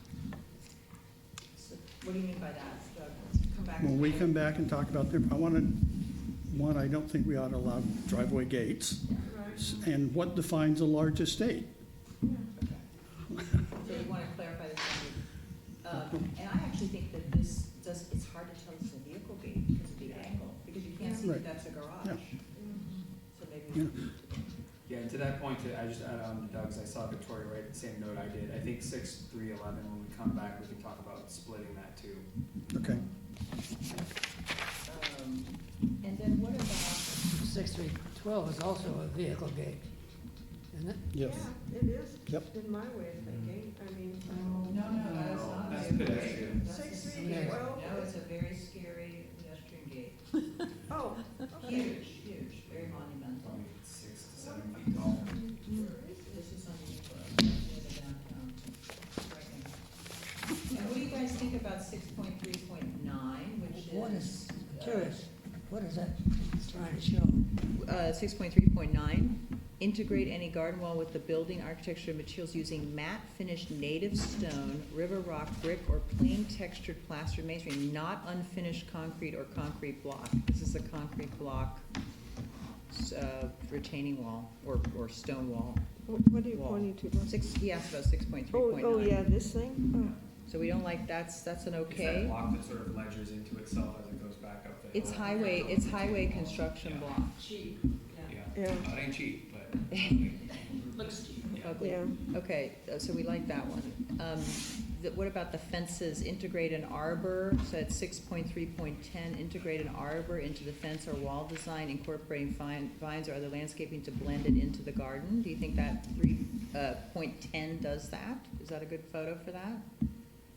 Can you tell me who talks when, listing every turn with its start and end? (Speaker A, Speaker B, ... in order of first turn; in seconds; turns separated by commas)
Speaker A: 1.5-4.5, Speaker B: 3.8-5.8, Speaker B: 6.5-11.7, Speaker C: 9.2-9.6, Speaker C: 12.2-12.5, Speaker A: 12.6-12.8, Speaker B: 13.3-13.7, Speaker A: 13.7-15.2, Speaker A: 15.8-24.5, Speaker B: 21.2-21.5, Speaker C: 22.5-22.8, Speaker B: 23.7-24.1, Speaker D: 24.9-32.3, Speaker B: 32.7-33.0, Speaker A: 32.8-33.1, Speaker A: 34.9-37.2, Speaker E: 37.3-39.8, Speaker E: 40.7-41.0, Speaker B: 41.1-41.5, Speaker C: 41.2-44.4, Speaker D: 43.1-43.5, Speaker D: 44.3-46.6, Speaker A: 44.4-50.7, Speaker C: 46.6-48.1, Speaker E: 47.2-47.6, Speaker C: 50.9-52.0, Speaker A: 51.3-53.6, Speaker D: 51.6-52.1, Speaker D: 52.7-55.4, Speaker C: 54.4-56.5, Speaker A: 55.6-59.7, Speaker A: 60.7-65.2, Speaker D: 60.7-61.5, Speaker E: 63.6-67.4, Speaker A: 67.7-81.8, Speaker A: 82.9-85.8, Speaker C: 86.0-87.5, Speaker A: 86.5-89.2, Speaker C: 88.5-90.2, Speaker A: 90.5-92.4, Speaker D: 91.9-97.2, Speaker A: 94.9-97.5, Speaker D: 98.2-101.8, Speaker C: 98.5-98.9, Speaker A: 99.9-100.4, Speaker A: 101.4-119.8, Speaker C: 101.8-102.2